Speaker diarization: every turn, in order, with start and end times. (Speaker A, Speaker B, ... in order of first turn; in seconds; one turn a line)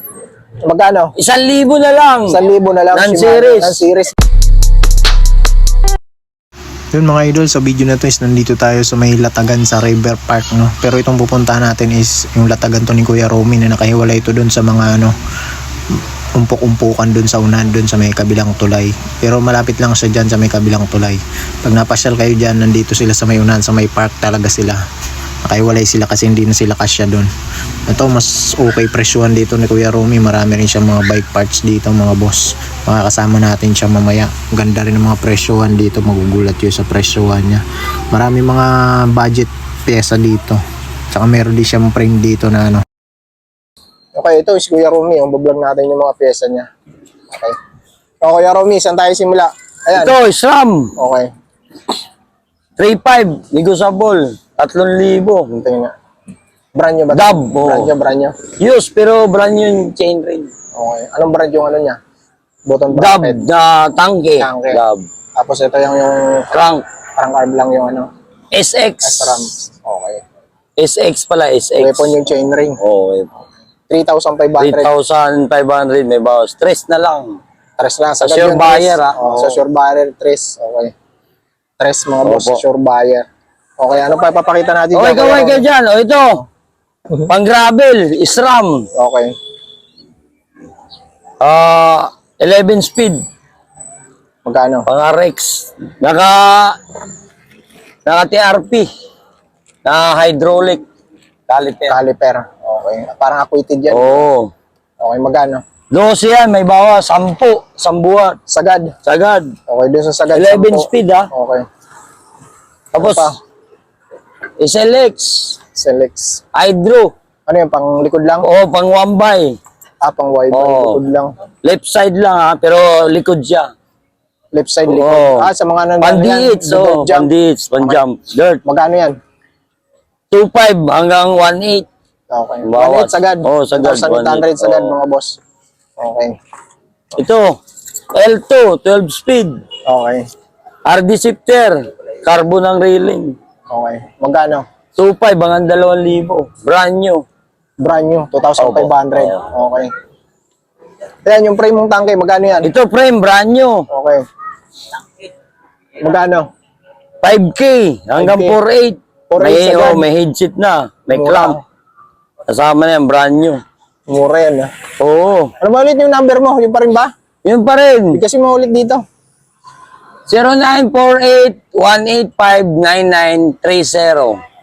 Speaker A: 0.7-1.1
Speaker B: 1.2-2.4
Speaker A: 2.3-4.1
Speaker B: 2.9-3.8
Speaker A: 7.0-7.2
Speaker C: 7.1-15.1
Speaker A: 10.3-12.5
Speaker A: 14.5-14.8
Speaker C: 16.4-24.8
Speaker A: 20.0-20.5
Speaker C: 25.5-27.3
Speaker C: 27.9-40.6
Speaker C: 41.1-42.8
Speaker A: 44.1-46.7
Speaker A: 47.3-47.5
Speaker A: 48.2-50.2
Speaker B: 49.9-50.9
Speaker A: 51.0-51.3
Speaker B: 52.8-55.5
Speaker A: 55.5-55.9
Speaker A: 56.7-58.3
Speaker B: 57.1-57.9
Speaker B: 58.5-60.5
Speaker A: 60.8-62.0
Speaker A: 62.7-63.4
Speaker B: 62.9-65.1
Speaker A: 64.4-64.8
Speaker A: 65.4-66.5
Speaker B: 66.5-66.8
Speaker A: 67.2-68.1
Speaker B: 68.5-69.5
Speaker A: 69.0-70.2
Speaker B: 70.8-72.1
Speaker A: 71.8-72.8
Speaker B: 72.8-73.3
Speaker A: 73.9-74.9
Speaker B: 74.6-77.4
Speaker A: 77.8-80.9
Speaker B: 78.2-79.6
Speaker A: 81.8-83.2
Speaker B: 82.2-82.6
Speaker A: 83.8-85.6
Speaker B: 84.9-86.4
Speaker B: 87.2-88.9
Speaker A: 89.0-89.3
Speaker B: 91.4-93.2
Speaker A: 94.4-94.9
Speaker B: 94.9-96.8
Speaker B: 98.0-98.9
Speaker B: 99.8-100.8
Speaker B: 101.5-102.0
Speaker A: 101.9-104.2
Speaker B: 103.9-104.5
Speaker A: 105.0-105.6
Speaker B: 105.9-108.4
Speaker A: 108.5-108.9
Speaker B: 109.0-109.5
Speaker A: 109.7-111.6
Speaker B: 110.3-111.3
Speaker B: 112.9-113.4
Speaker A: 113.0-113.4
Speaker B: 114.6-115.6
Speaker A: 115.8-116.4
Speaker B: 116.5-117.1
Speaker A: 117.5-118.5
Speaker B: 118.4-119.5
Speaker A: 120.0-121.3
Speaker B: 120.5-121.0
Speaker B: 121.6-123.7
Speaker A: 124.5-128.0
Speaker B: 124.9-125.5
Speaker B: 126.0-128.6
Speaker A: 128.7-129.2
Speaker B: 130.3-131.8
Speaker A: 132.3-135.3
Speaker B: 132.7-134.9
Speaker A: 136.0-136.3
Speaker B: 137.2-137.6
Speaker B: 138.1-139.6
Speaker A: 139.9-140.2
Speaker B: 140.8-143.3
Speaker A: 143.7-144.7
Speaker B: 145.0-147.2
Speaker A: 147.8-149.9
Speaker B: 148.6-149.4
Speaker A: 151.2-152.7
Speaker B: 152.6-153.9
Speaker A: 153.9-154.2
Speaker A: 156.0-156.5
Speaker B: 157.2-161.6
Speaker A: 158.2-158.6
Speaker A: 159.3-160.1
Speaker A: 161.1-161.6
Speaker B: 162.5-163.6
Speaker A: 164.1-164.7
Speaker B: 165.0-165.5
Speaker A: 165.6-167.1
Speaker B: 167.4-168.2
Speaker A: 168.1-169.0
Speaker B: 170.3-174.4